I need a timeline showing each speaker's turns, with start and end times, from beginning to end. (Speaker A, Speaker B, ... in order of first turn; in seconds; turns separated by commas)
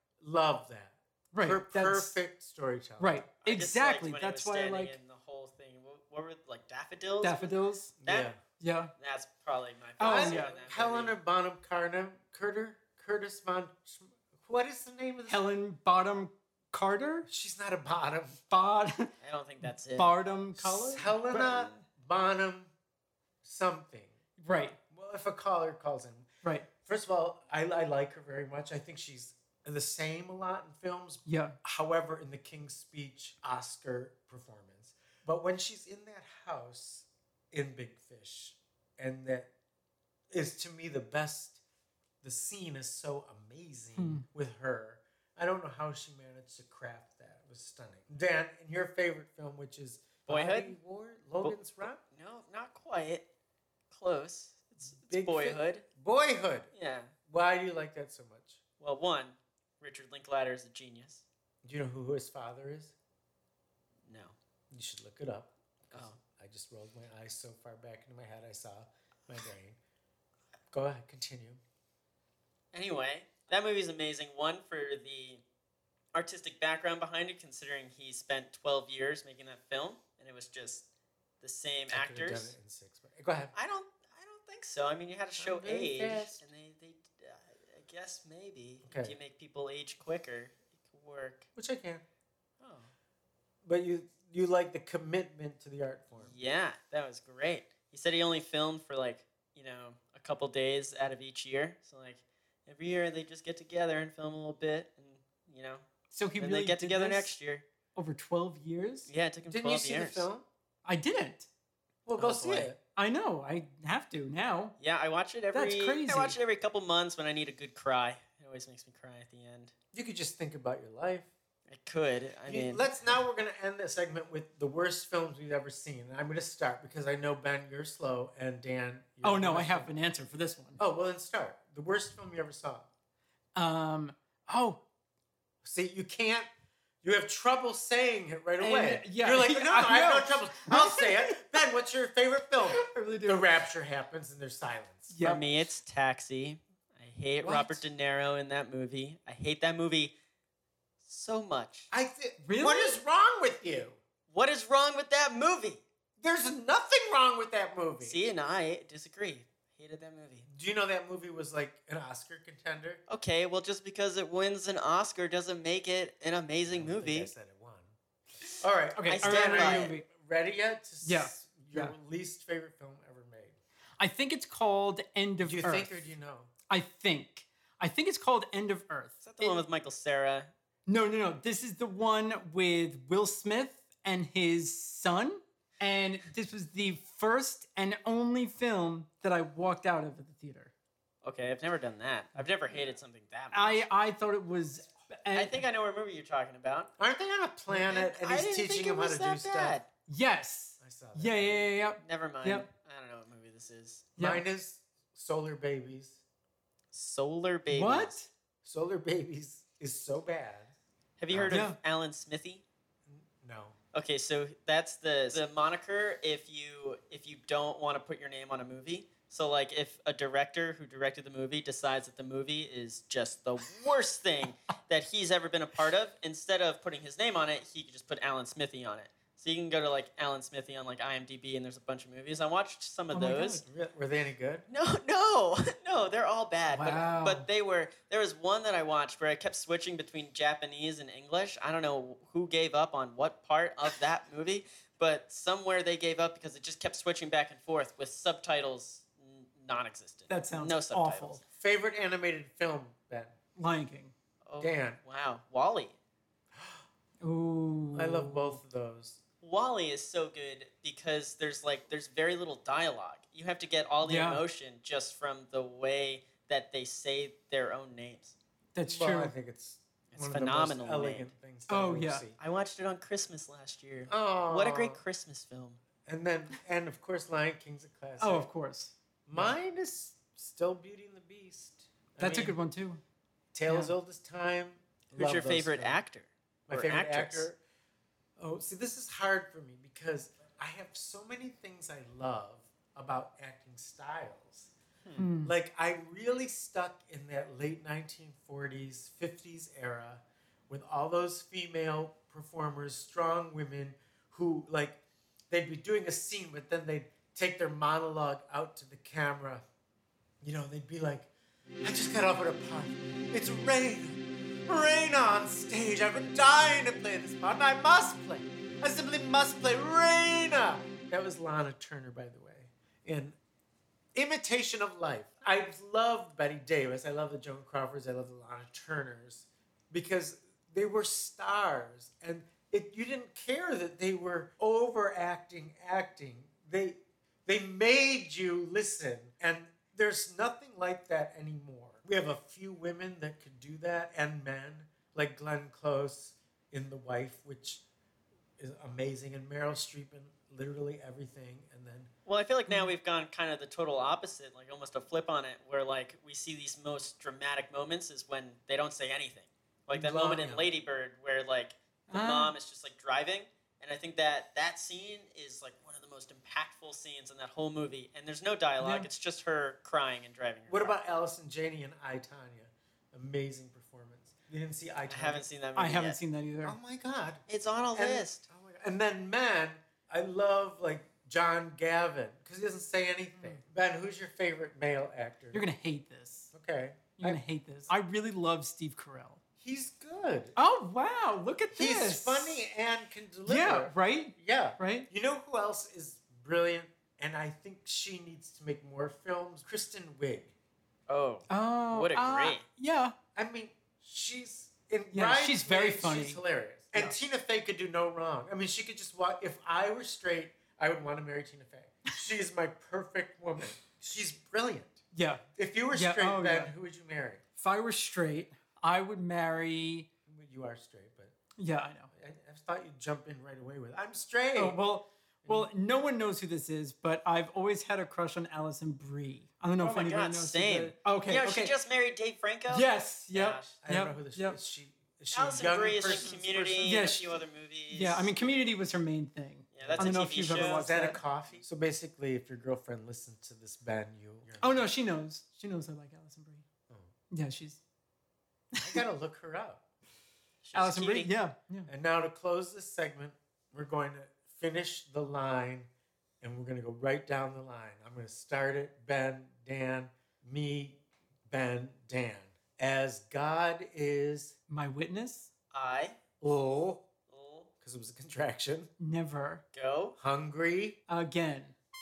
Speaker A: 0.2-3.2, Speaker B: 1.3-2.1, Speaker B: 3.0-5.0, Speaker C: 3.4-7.5, Speaker B: 7.2-8.0, Speaker A: 8.0-8.4, Speaker C: 8.0-8.3, Speaker B: 8.6-8.9, Speaker C: 9.0-11.2, Speaker B: 10.0-10.6, Speaker A: 10.0-15.4, Speaker B: 15.2-17.2, Speaker A: 17.3-18.4, Speaker B: 18.5-19.1, Speaker C: 19.2-20.1, Speaker B: 19.6-21.8, Speaker A: 20.5-22.7, Speaker A: 23.4-24.2, Speaker B: 24.4-24.8, Speaker A: 24.9-26.3, Speaker A: 26.8-39.5, Speaker B: 31.2-31.5, Speaker A: 40.3-41.6, Speaker A: 42.2-52.0, Speaker B: 44.0-44.2, Speaker C: 50.3-50.8, Speaker C: 51.4-53.2, Speaker C: 53.9-55.9, Speaker A: 55.0-56.7, Speaker C: 56.7-57.1, Speaker A: 57.2-58.6, Speaker C: 58.8-61.2, Speaker A: 61.6-62.9, Speaker C: 64.1-64.3, Speaker A: 64.7-69.8, Speaker C: 65.9-66.2, Speaker A: 70.7-71.6, Speaker C: 72.7-75.4, Speaker C: 76.1-80.8, Speaker C: 81.4-82.5, Speaker A: 81.9-83.5, Speaker C: 83.5-91.5, Speaker A: 85.4-86.4, Speaker A: 88.8-89.1, Speaker A: 91.5-92.0, Speaker C: 92.6-92.9, Speaker A: 93.6-96.3, Speaker C: 96.2-105.8, Speaker B: 106.1-107.3, Speaker C: 106.4-107.6, Speaker B: 107.9-109.1, Speaker C: 109.1-110.3, Speaker A: 109.5-110.4, Speaker B: 110.8-111.5, Speaker A: 112.0-112.8, Speaker B: 112.2-114.7, Speaker C: 112.5-112.7, Speaker C: 114.8-119.7, Speaker B: 115.5-116.4, Speaker A: 119.9-121.3, Speaker C: 121.7-122.9, Speaker A: 122.5-129.9, Speaker B: 129.2-130.8, Speaker A: 130.8-132.9, Speaker B: 133.5-134.8, Speaker A: 135.6-136.5, Speaker A: 137.0-145.2, Speaker B: 138.6-141.3, Speaker B: 142.7-143.5, Speaker B: 145.1-145.4, Speaker C: 145.2-150.1, Speaker A: 147.4-147.8, Speaker C: 151.0-151.9, Speaker A: 151.9-154.0, Speaker B: 152.4-153.0, Speaker C: 154.3-155.8, Speaker A: 156.2-158.2, Speaker C: 158.0-160.5, Speaker A: 160.5-163.0, Speaker C: 163.1-167.3, Speaker A: 166.7-167.9, Speaker A: 168.5-173.6, Speaker B: 168.9-170.0, Speaker C: 169.1-169.9, Speaker B: 171.0-171.9, Speaker B: 174.0-176.1, Speaker A: 175.4-176.5, Speaker B: 176.7-179.6, Speaker C: 179.2-180.5, Speaker B: 180.9-190.7, Speaker C: 191.2-193.8, Speaker B: 193.5-195.6, Speaker C: 195.3-196.9, Speaker A: 197.0-199.8, Speaker C: 197.7-199.8, Speaker B: 200.1-202.7, Speaker A: 200.8-201.7, Speaker C: 202.0-204.2, Speaker B: 204.2-204.4, Speaker A: 204.2-206.2, Speaker C: 206.9-208.2, Speaker B: 207.7-208.3, Speaker A: 208.6-210.7, Speaker C: 211.2-212.6, Speaker A: 211.3-211.6, Speaker B: 211.5-211.8, Speaker A: 213.1-213.8, Speaker C: 213.9-233.6, Speaker B: 233.1-233.6, Speaker A: 233.6-234.6, Speaker C: 234.7-251.4, Speaker B: 236.7-237.5, Speaker B: 250.3-251.4, Speaker A: 251.4-253.3, Speaker B: 253.6-254.1, Speaker C: 254.4-255.9, Speaker A: 254.6-255.0, Speaker B: 257.2-258.6, Speaker A: 257.9-259.2, Speaker C: 259.4-268.4, Speaker B: 264.0-264.4, Speaker B: 268.7-269.3, Speaker A: 268.8-272.4, Speaker C: 270.1-271.4, Speaker B: 271.7-272.3, Speaker C: 272.4-275.8, Speaker A: 274.1-275.0, Speaker A: 276.0-278.5, Speaker B: 278.2-279.6, Speaker A: 279.3-282.6, Speaker B: 282.2-283.0, Speaker A: 283.5-286.0, Speaker B: 283.7-283.9, Speaker C: 285.1-287.5, Speaker A: 286.7-287.6, Speaker A: 288.4-294.7, Speaker B: 295.2-295.5, Speaker A: 295.4-305.0, Speaker A: 305.5-309.6, Speaker A: 310.4-311.3, Speaker A: 311.8-323.4, Speaker A: 324.1-347.8, Speaker A: 348.6-352.1, Speaker C: 352.2-371.0, Speaker B: 352.7-352.9, Speaker A: 359.9-360.7, Speaker B: 362.1-362.6, Speaker B: 368.8-369.1, Speaker A: 370.7-375.4, Speaker C: 375.1-376.2, Speaker B: 375.7-376.8, Speaker A: 376.6-377.4, Speaker C: 377.5-378.4, Speaker A: 377.9-385.7, Speaker B: 385.5-386.5, Speaker A: 386.5-387.9, Speaker B: 387.2-389.4, Speaker A: 389.6-390.5, Speaker B: 390.6-392.6, Speaker A: 391.7-400.5, Speaker B: 393.4-395.1, Speaker C: 401.1-402.6, Speaker B: 401.5-403.1, Speaker A: 403.3-415.0, Speaker B: 405.1-406.4, Speaker B: 415.1-416.7, Speaker A: 415.6-417.4, Speaker B: 417.6-420.1, Speaker A: 420.3-421.3, Speaker B: 421.6-422.1, Speaker A: 422.1-424.8, Speaker B: 424.6-431.7, Speaker A: 425.4-425.7, Speaker C: 429.8-433.8, Speaker B: 432.7-434.6, Speaker A: 433.8-437.0, Speaker C: 435.3-438.3, Speaker B: 436.0-441.2, Speaker C: 439.7-440.9, Speaker A: 439.8-444.9, Speaker B: 444.6-446.6, Speaker B: 447.3-447.8, Speaker B: 448.7-449.0, Speaker A: 448.8-449.8, Speaker C: 450.6-451.3, Speaker B: 450.7-451.9, Speaker A: 451.9-455.9, Speaker A: 456.4-464.6, Speaker B: 464.7-465.5, Speaker C: 465.7-466.2, Speaker A: 466.4-467.0, Speaker C: 467.3-467.7, Speaker A: 467.8-468.9, Speaker B: 469.0-469.6, Speaker C: 469.7-470.1, Speaker A: 470.1-471.0, Speaker B: 471.1-471.7